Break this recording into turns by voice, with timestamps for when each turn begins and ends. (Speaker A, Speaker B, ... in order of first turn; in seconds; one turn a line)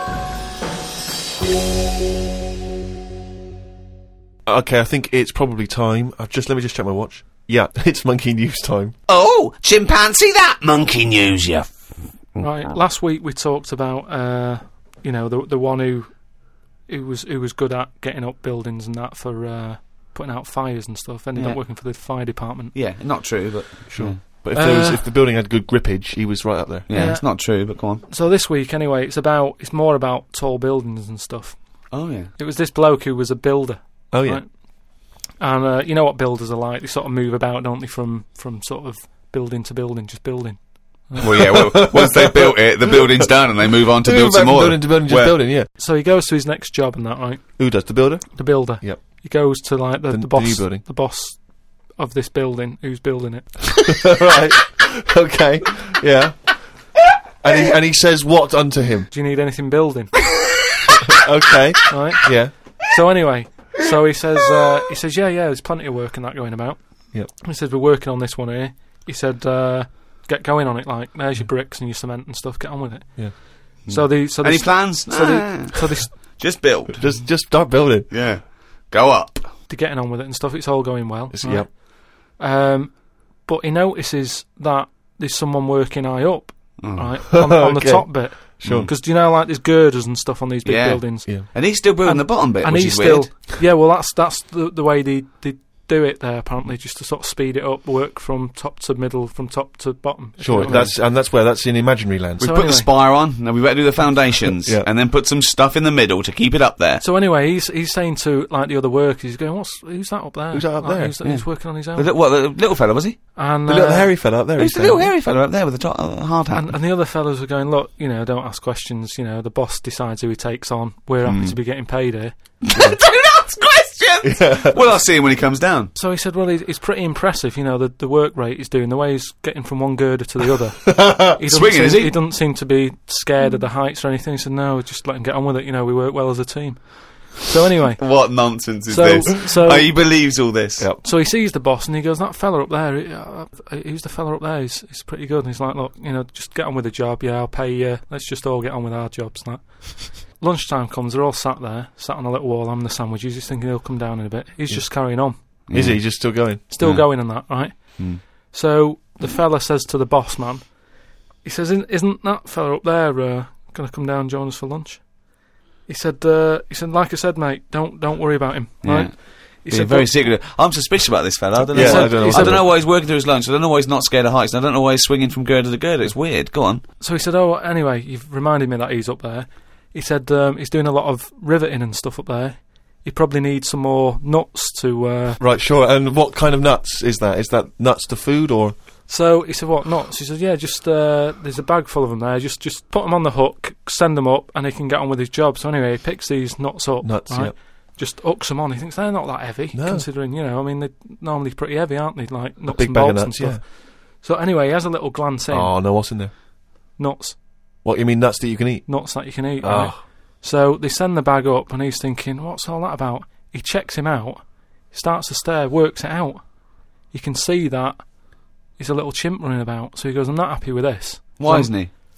Speaker A: 4.5-8.9
Speaker B: 9.1-12.5
Speaker C: 12.4-16.2
Speaker C: 16.9-22.7
Speaker B: 21.3-21.6
Speaker B: 22.7-24.2
Speaker A: 23.9-26.9
Speaker C: 24.5-25.0
Speaker B: 26.9-28.0
Speaker C: 26.9-31.6
Speaker B: 31.9-32.3
Speaker C: 32.4-34.5
Speaker A: 34.1-34.4
Speaker C: 35.4-41.3
Speaker B: 41.2-45.4
Speaker A: 41.2-43.3
Speaker A: 44.0-45.7
Speaker C: 45.8-47.4
Speaker A: 47.6-49.0
Speaker C: 48.3-51.4
Speaker A: 50.1-50.8
Speaker C: 51.9-53.5
Speaker A: 53.7-56.5
Speaker A: 57.4-59.1
Speaker C: 59.1-60.1
Speaker B: 60.4-60.8
Speaker A: 60.9-62.5
Speaker C: 61.9-66.8
Speaker C: 67.4-76.1
Speaker B: 73.8-77.2
Speaker A: 77.0-78.1
Speaker B: 78.1-79.5
Speaker C: 79.7-100.9
Speaker A: 81.3-81.7
Speaker B: 86.8-87.1
Speaker A: 87.3-88.9
Speaker B: 88.6-88.9
Speaker B: 90.6-93.5
Speaker A: 100.4-102.4
Speaker B: 100.6-100.9
Speaker B: 102.4-107.0
Speaker C: 102.4-102.9
Speaker A: 104.5-104.9
Speaker C: 107.0-112.1
Speaker A: 110.5-111.1
Speaker B: 111.2-113.2
Speaker C: 113.3-114.1
Speaker A: 113.7-115.1
Speaker B: 114.6-116.7
Speaker C: 116.5-122.3
Speaker B: 121.2-121.5
Speaker B: 122.6-125.9
Speaker A: 124.2-124.8
Speaker C: 125.9-138.1
Speaker A: 130.8-131.4
Speaker B: 131.5-132.2
Speaker B: 138.0-140.8
Speaker C: 138.9-139.9
Speaker C: 141.0-155.4
Speaker B: 155.7-156.3
Speaker A: 155.7-156.6
Speaker C: 156.7-160.8
Speaker B: 156.8-157.2
Speaker B: 157.7-158.2
Speaker C: 161.4-165.1
Speaker C: 165.9-170.1
Speaker B: 168.8-176.8
Speaker A: 171.7-172.7
Speaker C: 171.7-172.6
Speaker C: 177.0-185.4
Speaker A: 185.4-188.7
Speaker C: 189.1-205.7
Speaker A: 197.0-197.5
Speaker A: 199.7-200.1
Speaker A: 202.7-203.6
Speaker A: 205.5-206.3
Speaker C: 207.0-207.4
Speaker A: 207.8-209.0
Speaker C: 208.9-216.4
Speaker A: 209.6-210.0
Speaker C: 217.1-218.0
Speaker C: 218.8-221.8
Speaker B: 221.4-221.9